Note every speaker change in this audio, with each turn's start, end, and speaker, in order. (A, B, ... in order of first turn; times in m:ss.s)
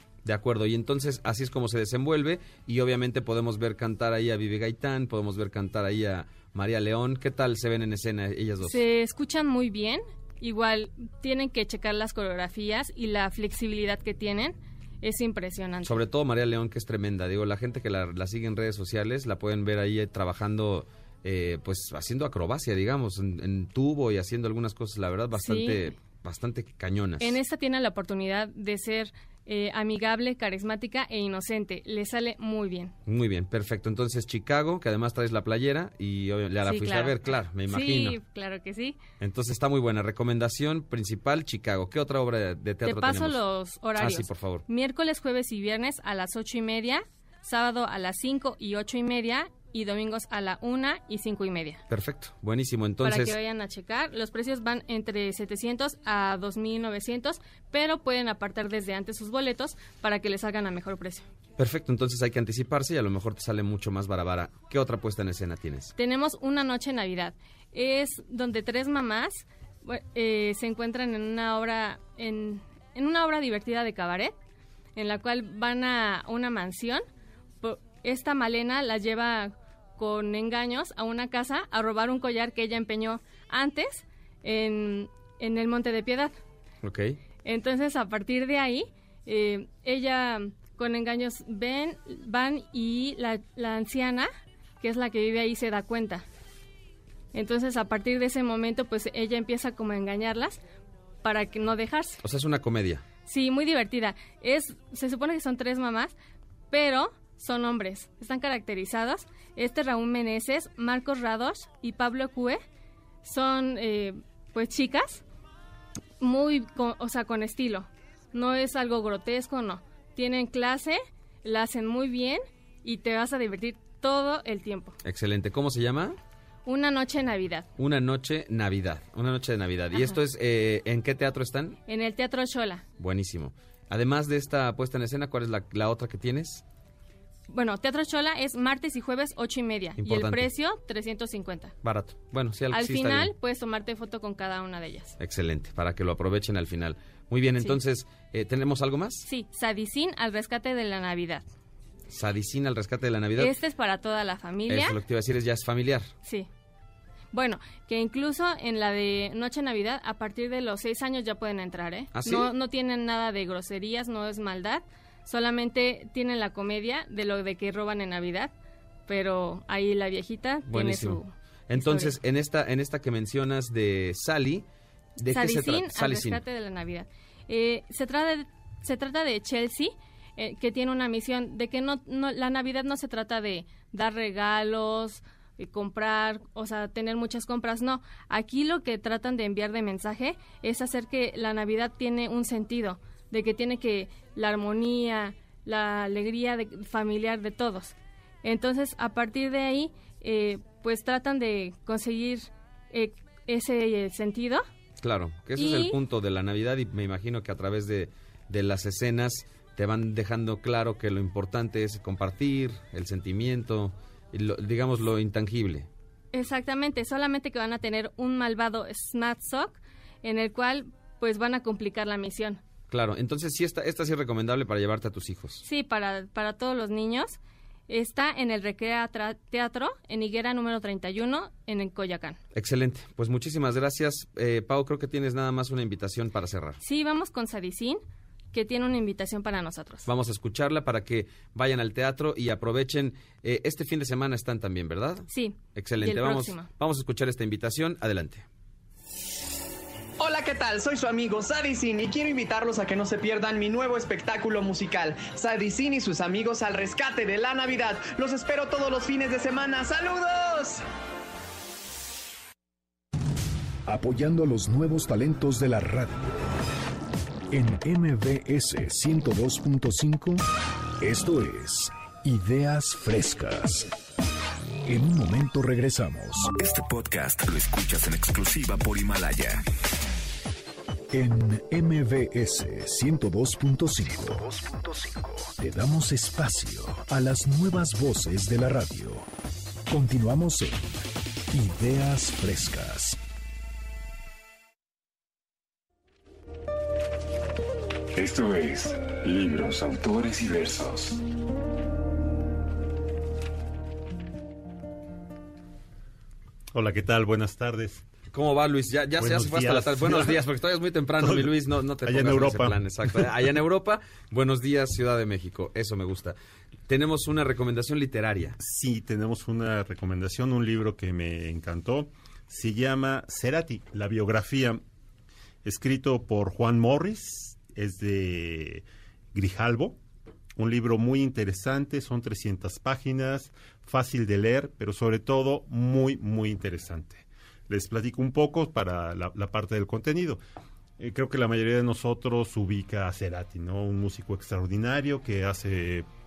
0:00.2-0:08.8 A
0:08.6-0:16.0 B
0:15.8-0:27.4 A
0:25.4-0:25.9 B
0:27.2-0:32.9 B
0:33.1-0:38.2 A
0:36.6-0:39.0 B
0:39.2-0:43.4 A
0:42.8-0:51.8 B
0:44.0-0:44.6 A
0:51.9-0:53.4 A
0:53.0-1:01.3 B
1:01.6-1:05.9 A
1:06.0-1:14.3 B
1:15.0-1:17.0 B
1:17.6-1:26.3 B
1:26.8-1:27.2 A
1:27.4-1:36.2 B
1:37.3-1:40.6 B
1:41.2-1:42.2 B
1:42.2-1:43.0 A
1:43.2-1:46.1 B
1:46.7-1:52.6 B
1:53.2-1:55.2 B
1:56.2-2:05.0 B
2:05.0-2:06.2 A
2:06.7-2:07.7 B
2:07.8-2:11.8 A
2:11.9-2:12.8 B
2:13.0-2:16.6 A
2:17.5-2:21.8 B
2:20.0-2:20.5 A
2:21.8-2:23.3 A
2:22.7-2:25.2 B
2:25.2-2:29.2 A
2:29.2-2:31.4 B
2:32.1-2:33.5 A
2:33.4-2:35.0 B
2:34.7-2:36.1 A
2:37.3-2:48.5 B
2:42.1-2:42.5 A
2:49.1-2:52.2 B
2:50.7-2:54.6 A
2:55.2-2:56.4 A
2:55.3-3:24.6 B
3:25.0-3:35.9 A
3:25.6-3:26.0 B
3:36.3-3:42.6 B
3:42.9-3:45.6 A
3:45.6-3:52.4 B
3:52.5-3:56.8 A
3:56.8-3:58.0 B
3:58.5-4:00.1 B
4:00.1-4:08.4 A
4:05.3-4:06.7 B
4:10.2-4:20.8 C
4:23.9-4:26.3 D
4:27.5-4:30.4 D
4:31.0-4:33.9 D
4:34.8-4:36.5 D
4:36.5-4:39.6 E
4:41.1-4:49.3 D
4:49.9-4:50.9 D
4:51.5-4:53.2 D
4:58.2-5:01.2 F
5:06.7-5:08.0 G
5:08.3-5:16.4 A
5:09.2-5:10.4 G
5:11.2-5:12.8 G
5:16.9-5:18.6 A
5:18.6-5:24.8 G
5:25.6-5:30.0 G
5:30.6-5:40.4 G
5:41.0-5:46.1 G